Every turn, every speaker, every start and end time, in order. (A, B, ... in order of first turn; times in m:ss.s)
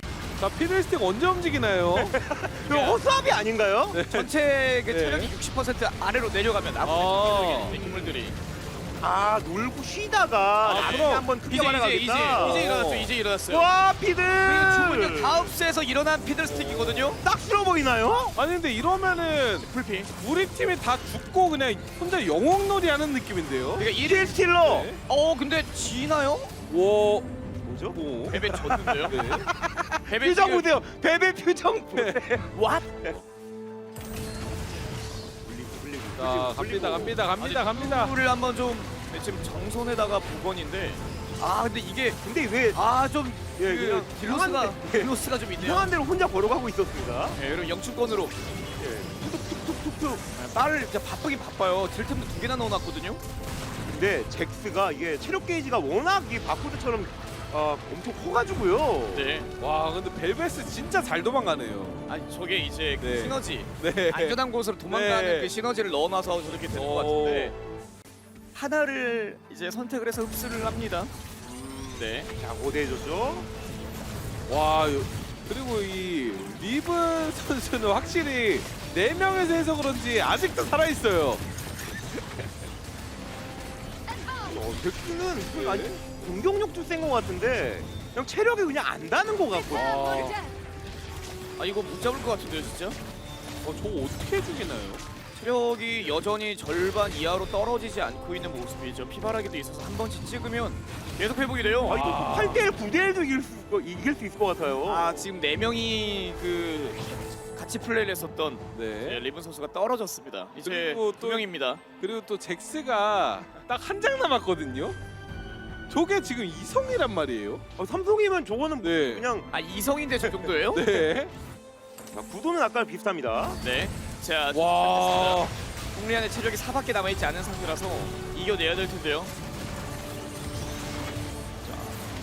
0:00.4-0:02.2 A
0:01.9-0:04.0 B
0:02.7-0:03.0 C
0:03.9-0:04.3 A
0:04.1-0:08.4 C
0:04.9-0:05.3 A
0:06.8-0:07.8 A
0:07.8-0:08.2 B
0:09.0-0:12.7 B
0:10.6-0:11.3 A
0:10.7-0:13.7 C
0:12.3-0:13.2 A
0:13.5-0:15.5 B
0:14.4-0:17.2 C
0:16.4-0:17.2 A
0:17.2-0:18.4 B
0:18.4-0:23.9 A
0:19.6-0:20.1 C
0:23.8-0:24.4 C
0:23.8-0:24.9 B
0:24.6-0:25.0 A
0:25.0-0:26.6 C
0:26.7-0:27.3 A
0:27.6-0:33.2 B
0:27.9-0:28.4 A
0:28.3-0:29.2 C
0:29.1-0:29.5 A
0:30.0-0:30.7 C
0:31.9-0:32.2 A
0:35.4-0:37.2 B
0:36.2-0:38.1 A
0:37.4-0:42.2 C
0:42.2-0:42.8 B
0:42.7-0:45.9 C
0:43.6-0:47.4 B
0:47.4-0:48.4 C
0:48.8-0:50.2 B
0:50.3-0:53.2 C
0:53.9-0:59.3 B
0:59.1-0:59.5 C
0:59.6-1:02.1 A
1:02.1-1:07.6 C
1:03.0-1:05.5 A
1:06.7-1:07.6 A
1:08.5-1:11.1 C
1:11.4-1:11.9 A
1:12.0-1:12.3 C
1:12.4-1:13.5 B
1:14.5-1:21.4 A
1:24.2-1:30.4 B
1:25.5-1:26.0 A
1:29.7-1:30.4 A
1:31.6-1:33.0 C
1:33.6-1:35.0 A
1:35.3-1:42.0 C
1:41.9-1:45.3 B
1:41.9-1:42.7 A
1:44.8-1:51.8 C
1:48.7-1:49.2 A
1:50.6-1:51.5 A
1:52.0-1:55.0 A
1:55.9-1:57.6 A
1:57.8-1:59.5 B
1:58.8-1:59.3 A
1:59.5-2:01.1 C
2:00.7-2:01.3 A
2:02.1-2:03.6 B
2:03.6-2:09.3 C
2:04.5-2:05.6 A
2:11.6-2:12.0 C